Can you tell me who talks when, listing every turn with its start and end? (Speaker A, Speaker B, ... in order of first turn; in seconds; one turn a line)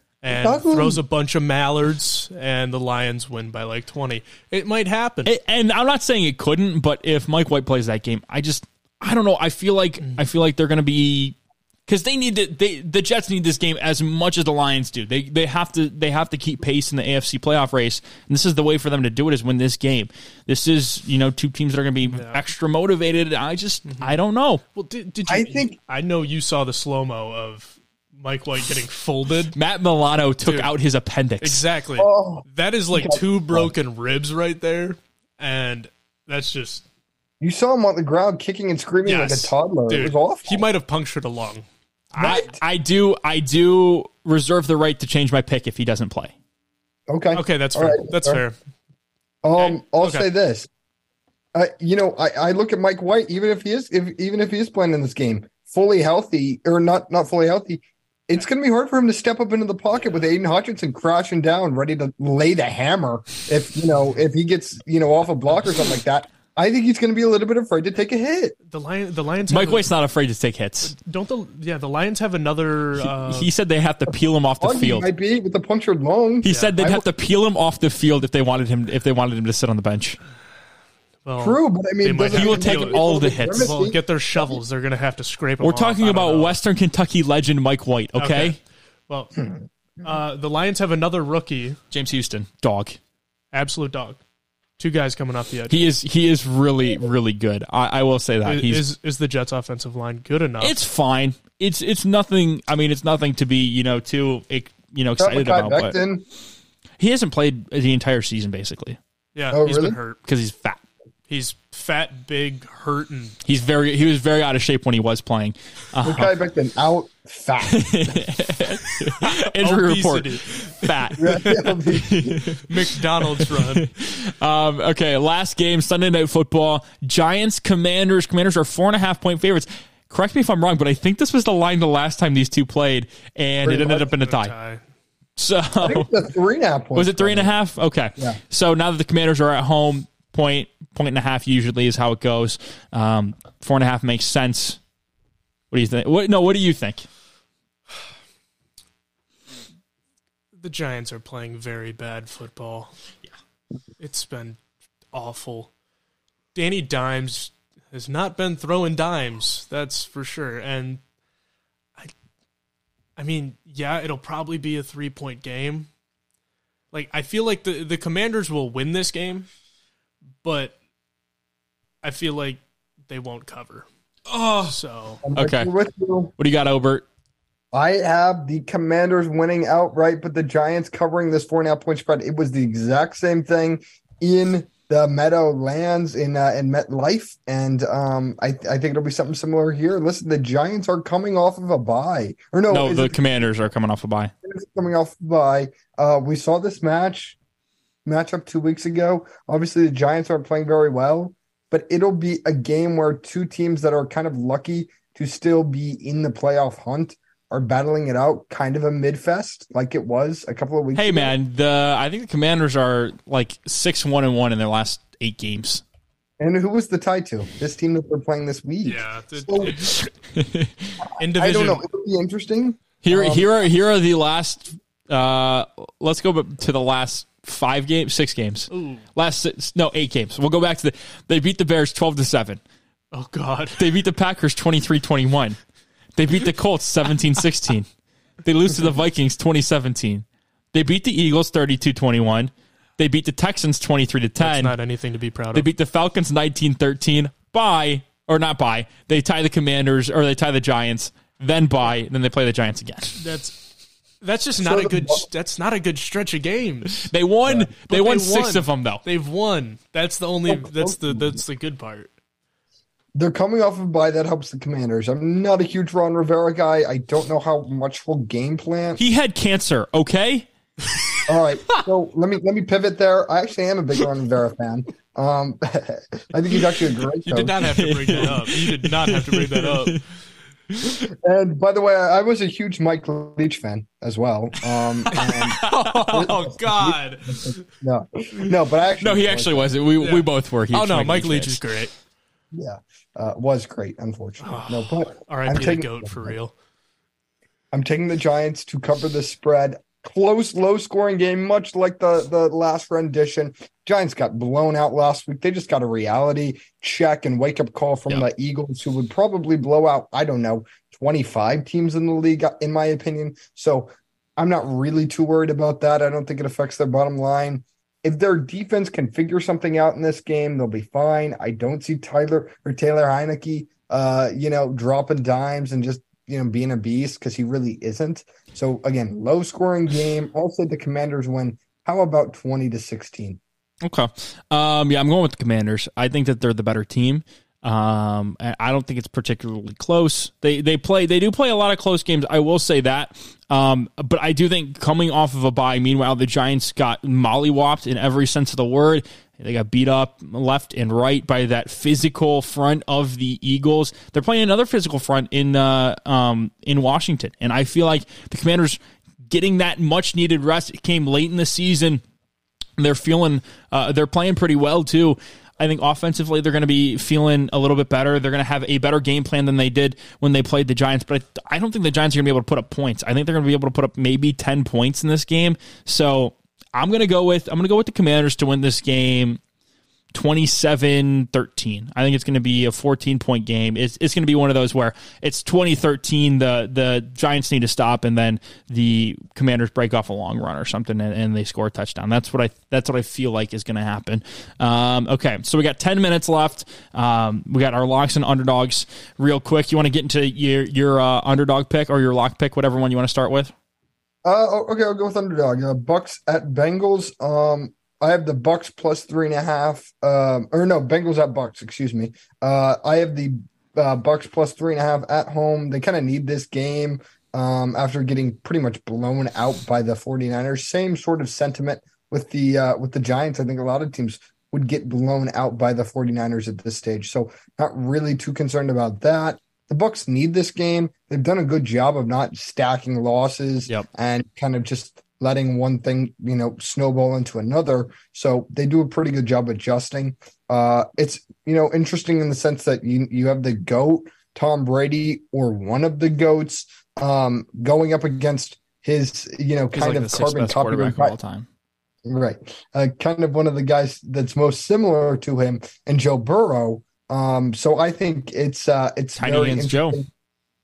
Speaker A: 0.2-5.3
Speaker B: 0.3-1.0
Speaker C: 5.2-11.3
Speaker C: 11.9-24.6
Speaker A: 22.1-22.4
Speaker A: 23.9-24.1
Speaker A: 24.7-29.6
Speaker B: 25.3-25.8
Speaker C: 29.5-31.6
Speaker A: 30.4-30.7
Speaker A: 31.4-36.8
Speaker B: 32.0-33.7
Speaker B: 37.4-40.6
Speaker A: 39.0-41.6
Speaker C: 42.1-46.3
Speaker B: 42.2-42.6
Speaker B: 47.1-48.4
Speaker A: 47.3-48.5
Speaker B: 49.4-50.7
Speaker A: 49.6-50.3
Speaker B: 51.5-68.5
Speaker A: 68.7-69.9
Speaker C: 69.5-70.9
Speaker A: 70.8-73.5
Speaker C: 73.0-75.1
Speaker B: 74.6-77.1
Speaker C: 76.4-80.2
Speaker A: 76.5-76.7
Speaker A: 81.2-86.6
Speaker B: 81.4-84.6
Speaker C: 82.3-83.7
Speaker C: 85.6-88.6
Speaker A: 88.2-89.4
Speaker A: 90.0-91.8
Speaker C: 91.9-93.0
Speaker A: 93.5-94.2
Speaker A: 94.8-95.9
Speaker C: 95.7-98.8
Speaker A: 98.4-100.8
Speaker C: 100.6-106.0
Speaker B: 105.2-106.2
Speaker C: 107.0-109.0
Speaker A: 109.3-110.2
Speaker B: 109.5-110.0
Speaker C: 110.2-110.8
Speaker A: 111.3-113.4
Speaker C: 113.4-116.3
Speaker B: 116.0-118.3
Speaker C: 117.7-122.7
Speaker A: 119.2-121.7
Speaker B: 121.2-122.5
Speaker A: 122.5-123.9
Speaker C: 123.2-134.5
Speaker B: 133.6-134.0
Speaker A: 133.9-134.8
Speaker C: 135.4-136.1
Speaker B: 135.8-137.5
Speaker C: 136.9-144.8
Speaker C: 145.7-147.1
Speaker A: 150.6-152.9
Speaker A: 154.0-154.6
Speaker A: 155.1-155.7
Speaker A: 156.5-161.0
Speaker A: 163.2-165.9
Speaker A: 166.9-169.5
Speaker A: 170.4-170.8
Speaker A: 172.0-173.9
Speaker C: 174.3-174.8
Speaker A: 174.7-175.2
Speaker B: 175.2-176.3
Speaker C: 175.3-175.7
Speaker C: 176.4-177.0
Speaker B: 177.7-193.2
Speaker C: 192.7-194.3
Speaker B: 194.4-197.4
Speaker B: 198.0-211.3
Speaker C: 210.9-215.8
Speaker B: 216.4-219.8
Speaker A: 218.8-220.0
Speaker C: 219.8-221.0
Speaker A: 221.2-221.8
Speaker B: 221.3-223.5
Speaker C: 223.0-232.6
Speaker A: 228.7-229.0
Speaker A: 233.1-233.9
Speaker C: 233.8-235.6
Speaker C: 236.2-237.9
Speaker C: 238.4-244.7
Speaker A: 244.4-245.7
Speaker C: 245.5-253.2
Speaker A: 253.2-253.6
Speaker A: 254.2-257.1
Speaker B: 254.6-255.2
Speaker C: 257.0-259.0
Speaker A: 257.8-262.1
Speaker B: 260.5-261.2
Speaker B: 263.1-269.0
Speaker C: 269.0-270.5
Speaker B: 271.3-277.5
Speaker A: 277.2-280.0
Speaker C: 277.6-280.0
Speaker C: 280.7-281.0
Speaker B: 281.1-289.7
Speaker C: 285.1-286.3
Speaker A: 285.2-287.6
Speaker C: 289.0-291.6
Speaker A: 290.0-291.9
Speaker B: 292.5-296.3
Speaker A: 294.4-296.5
Speaker B: 297.7-333.4
Speaker C: 333.8-362.0
Speaker C: 362.8-379.4
Speaker C: 380.1-403.5
Speaker B: 404.2-451.1
Speaker C: 449.7-451.5
Speaker B: 452.0-460.1
Speaker C: 459.2-460.0